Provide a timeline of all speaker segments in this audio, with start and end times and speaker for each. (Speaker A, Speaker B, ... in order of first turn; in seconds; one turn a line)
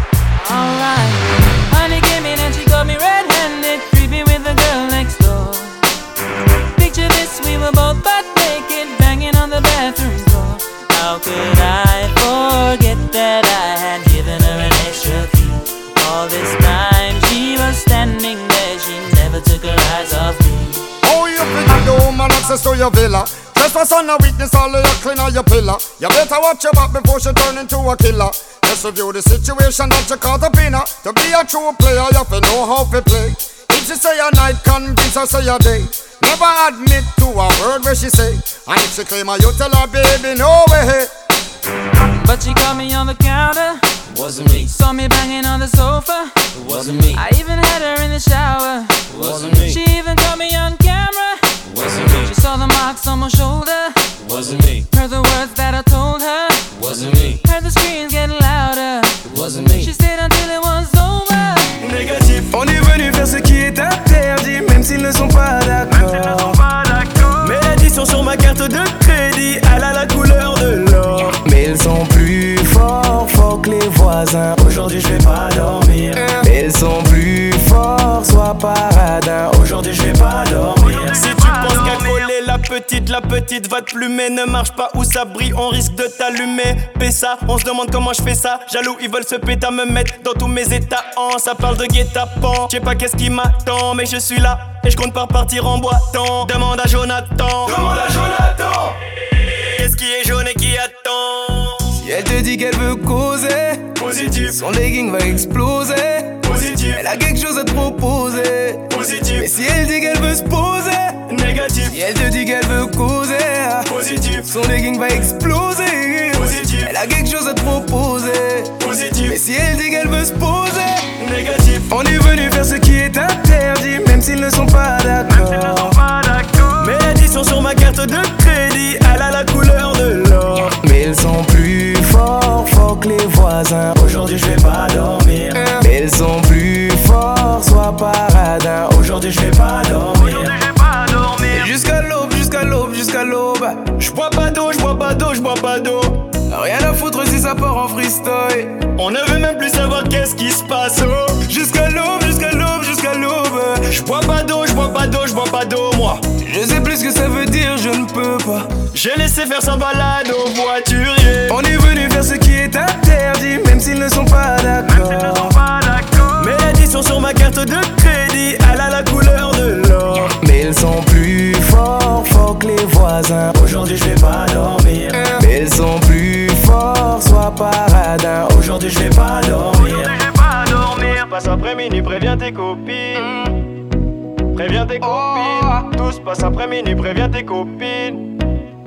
Speaker A: 0.3-5.9
Speaker A: 6.7-20.9
Speaker B: 21.0-41.1
Speaker A: 42.1-46.5
Speaker C: 44.1-44.6
Speaker C: 46.5-47.2
Speaker A: 47.1-54.2
Speaker C: 49.1-49.8
Speaker C: 51.7-52.3
Speaker C: 54.2-54.9
Speaker A: 54.9-56.8
Speaker C: 56.7-57.4
Speaker A: 57.4-61.8
Speaker C: 59.3-59.8
Speaker D: 61.8-62.5
Speaker E: 62.5-66.6
Speaker D: 65.9-71.4
Speaker E: 71.4-74.6
Speaker D: 74.6-76.3
Speaker E: 76.2-80.4
Speaker D: 80.3-98.8
Speaker D: 99.4-101.9
Speaker E: 101.9-111.2
Speaker D: 104.0-104.6
Speaker D: 106.4-107.0
Speaker D: 108.9-109.4
Speaker D: 111.3-112.0
Speaker E: 111.8-121.1
Speaker D: 113.9-114.5
Speaker D: 116.4-116.9
Speaker D: 118.8-119.3
Speaker D: 121.2-121.9
Speaker E: 121.9-126.0
Speaker D: 125.3-130.8
Speaker E: 130.8-134.0
Speaker D: 134.0-135.7
Speaker E: 135.5-139.2
Speaker D: 139.2-141.7
Speaker E: 141.5-143.9
Speaker D: 143.9-146.3
Speaker E: 146.5-148.9
Speaker D: 148.9-151.4
Speaker E: 151.5-153.8
Speaker D: 153.8-156.2
Speaker E: 156.4-158.8
Speaker D: 158.9-161.6
Speaker E: 161.5-165.5
Speaker D: 164.9-170.3
Speaker E: 170.4-173.6
Speaker D: 173.6-175.3
Speaker E: 175.1-178.7
Speaker D: 178.7-183.4
Speaker E: 183.2-183.5
Speaker D: 184.5-188.3
Speaker E: 185.0-185.9